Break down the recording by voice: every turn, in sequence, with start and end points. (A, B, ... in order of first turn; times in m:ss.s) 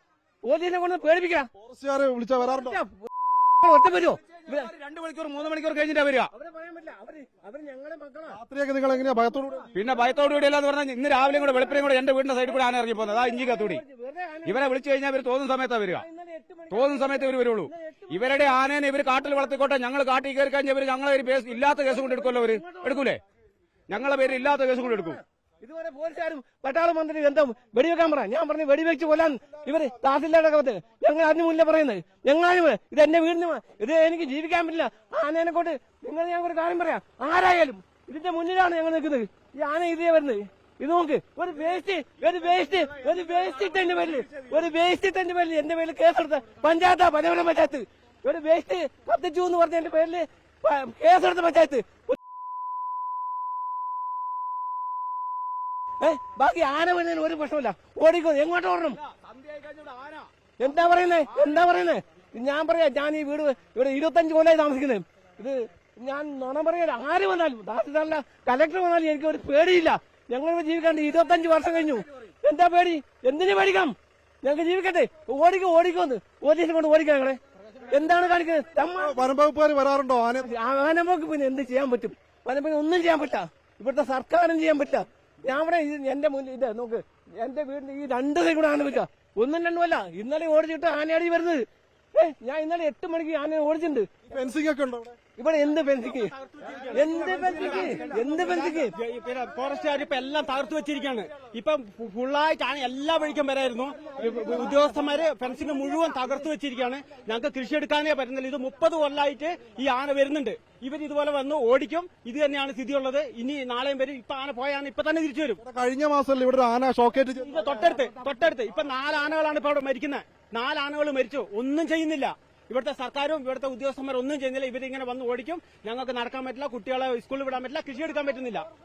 0:00.4-0:01.5 A
0:01.6-0:02.8 B
0:02.4-0:03.1 A
0:03.6-0:04.7 A
0:04.5-0:06.3 C
0:06.3-0:08.4 A
0:08.3-0:09.7 B
0:09.7-0:13.8 C
0:13.1-0:14.8 A
0:14.5-0:16.0 C
0:15.9-0:18.7 A
0:16.7-0:23.2 C
0:21.7-0:23.2 A
0:23.9-0:25.2 C
0:24.1-0:52.2 A
0:42.5-0:44.6 C
0:56.0-0:59.0 A
0:59.0-1:00.3 C
1:00.6-1:19.3 A
1:19.0-1:20.5 B
1:20.4-1:34.1 A
1:34.3-1:35.2 B
1:35.4-1:36.3 A
1:36.2-1:55.6 D
1:36.9-1:38.9 A
1:37.8-1:38.3 B
1:55.6-1:57.6 B
1:57.4-2:08.7 D